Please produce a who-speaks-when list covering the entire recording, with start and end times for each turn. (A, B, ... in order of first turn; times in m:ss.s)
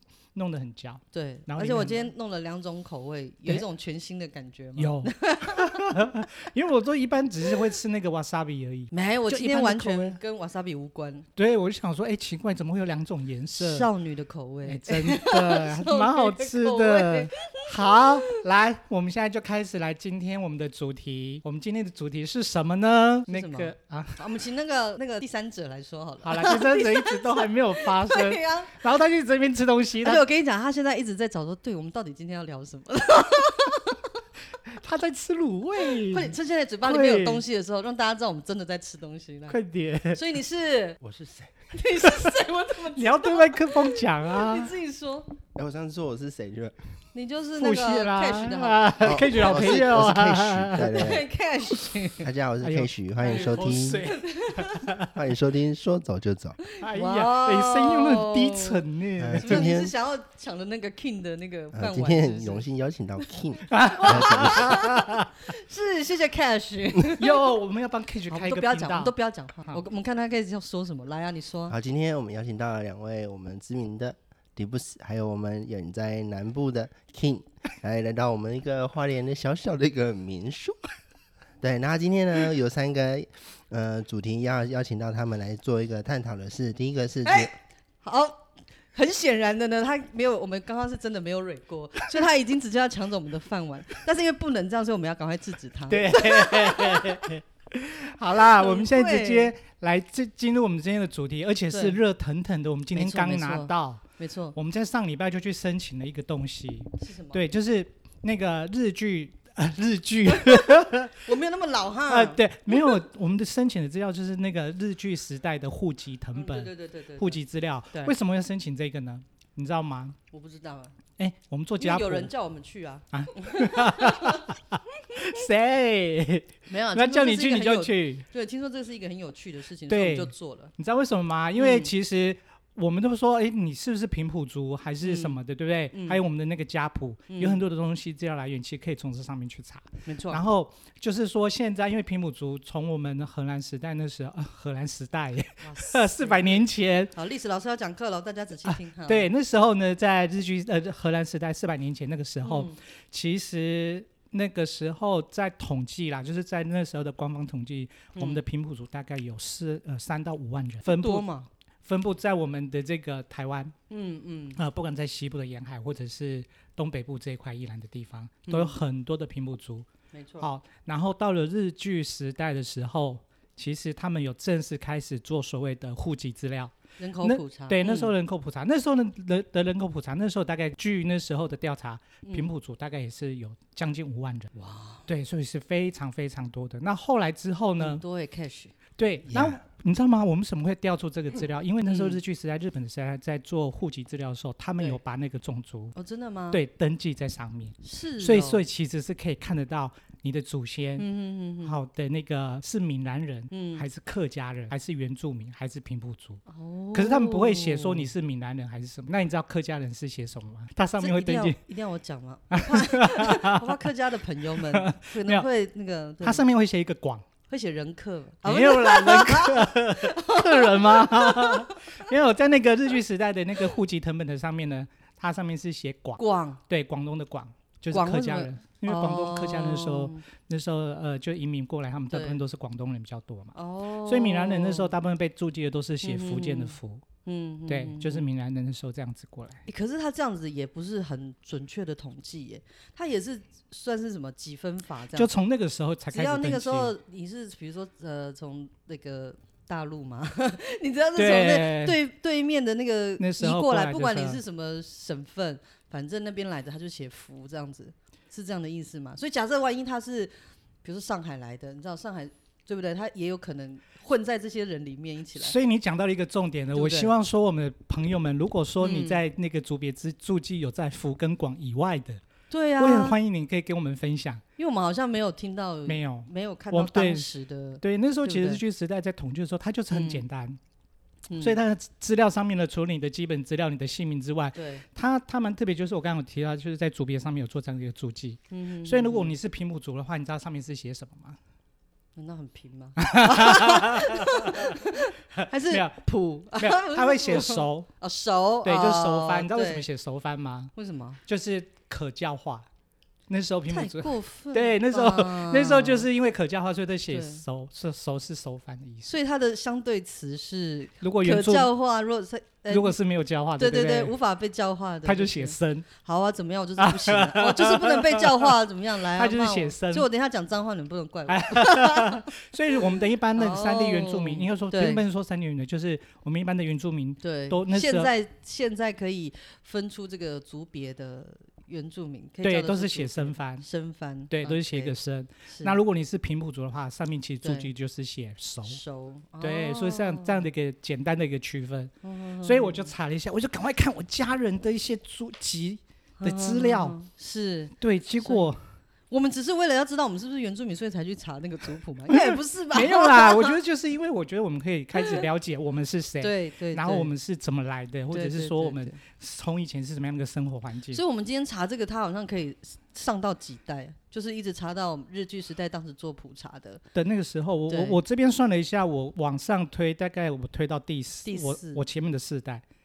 0:00.3-0:02.1 A
0:01.1-0:06.0 B
0:04.8-0:10.2 A
0:08.9-0:11.3 B
0:11.4-0:13.9 A
0:13.6-0:18.4 B
0:14.6-0:24.2 A
0:23.3-0:28.8 B
0:26.2-0:30.2 A
0:30.0-0:34.0 B
0:34.7-0:37.4 A
0:36.1-0:39.6 B
0:39.5-0:40.2 A
0:40.1-0:41.0 B
0:41.0-0:41.6 C
0:41.7-0:45.3 B
0:42.0-0:42.3 A
0:43.0-0:44.7 A
0:45.5-0:46.8 C
0:47.1-0:49.8 B
0:47.6-0:50.9 A
0:49.0-0:51.2 C
0:50.8-0:52.3 B
0:52.2-0:54.1 C
0:52.6-0:55.2 A
0:54.0-0:54.9 B
0:55.1-0:56.6 C
0:56.7-0:58.8 B
0:56.8-0:59.8 A
0:59.2-0:59.9 C
0:59.4-1:02.6 B
1:01.7-1:04.7 C
1:03.7-1:05.3 A
1:03.8-1:07.4 B
1:07.2-1:09.1 A
1:08.3-1:11.7 B
1:11.7-1:20.8 C
1:21.6-1:27.5 C
1:27.2-1:28.4 B
1:28.9-1:37.2 B
1:35.9-1:44.0 A
1:38.4-1:39.5 B
1:41.7-1:42.0 B
1:42.9-1:44.6 B
1:44.5-1:51.3 A
1:47.0-1:47.4 B
1:50.3-1:53.0 B
1:52.1-2:00.2 A
1:56.4-1:57.4 B
2:00.3-2:00.9 B
2:01.2-2:02.3 A
2:01.8-2:04.4 B
2:03.1-2:08.2 A
2:06.7-2:10.7 B
2:09.9-2:27.1 A
2:11.6-2:11.9 B
2:15.0-2:15.4 B
2:15.9-2:16.2 B
2:17.3-2:17.6 B
2:20.0-2:20.4 B
2:25.6-2:29.3 B
2:28.6-2:41.3 A
2:32.4-2:32.8 B
2:38.2-2:38.4 B
2:40.8-2:41.5 B
2:41.8-2:43.7 A
2:43.9-2:44.6 B
2:44.6-2:49.9 A
2:48.5-2:48.8 B
2:50.1-2:50.4 B
2:50.4-3:04.5 A
2:57.0-2:58.1 B
3:04.5-3:05.0 B
3:05.0-3:08.0 A
3:07.8-3:08.7 B
3:09.0-3:15.9 A
3:11.8-3:12.2 B
3:15.9-3:16.6 B
3:16.5-3:21.0 A
3:17.8-3:18.6 B
3:21.0-3:21.8 B
3:21.6-3:26.4 A
3:23.5-3:23.8 B
3:26.5-3:28.1 B
3:26.9-3:31.6 A
3:31.0-3:36.4 B
3:32.5-3:33.8 A
3:34.6-3:35.4 A
3:36.2-3:37.2 A
3:37.5-3:41.8 B
3:38.4-3:57.0 A
3:46.2-3:46.6 B
3:47.9-3:50.2 B
3:52.1-3:52.4 B
3:53.5-3:54.9 B
3:56.0-3:58.2 B
3:57.7-3:59.6 A
3:59.7-4:05.3 B
4:05.1-4:06.9 A
4:06.1-4:25.5 B
4:11.2-4:12.0 A
4:13.2-4:14.4 A
4:25.4-4:32.2 A
4:26.7-4:27.1 B
4:28.8-4:29.2 B
4:32.5-4:33.2 B
4:32.8-4:34.4 A
4:34.6-4:38.6 B
4:35.8-4:37.3 A
4:37.8-4:40.6 A
4:39.9-4:40.2 B
4:41.3-4:41.6 B
4:41.4-4:51.4 A
4:44.5-4:44.8 B
4:48.5-4:49.3 B
4:52.2-4:59.8 B
4:53.0-4:54.8 A
4:55.3-4:56.0 A
4:56.5-4:57.9 A
4:58.6-5:00.7 A
5:00.8-5:01.2 B
5:01.2-5:02.6 A
5:03.3-5:09.1 A
5:03.7-5:06.1 B
5:07.1-5:07.4 B
5:09.0-5:13.0 B
5:11.0-5:11.7 A
5:12.7-5:14.1 A
5:13.6-5:25.0 B
5:15.0-5:15.9 A
5:16.8-5:18.5 A
5:19.1-5:20.1 A
5:21.3-5:28.1 A
5:27.2-5:34.9 B
5:32.4-5:33.6 A
5:34.3-5:38.8 A
5:35.5-5:35.8 B
5:37.4-5:37.7 B
5:38.6-5:40.5 B
5:39.4-5:41.9 A
5:42.0-5:42.9 B
5:42.4-5:47.0 A
5:46.2-5:48.5 B
5:47.8-5:48.6 A
5:49.1-5:53.6 B
5:52.1-6:01.0 A
5:55.0-5:55.2 B
5:56.2-5:57.1 B
5:58.1-5:59.0 B
6:00.9-6:06.8 B
6:06.9-6:12.6 A
6:07.7-6:08.0 B
6:11.2-6:11.8 B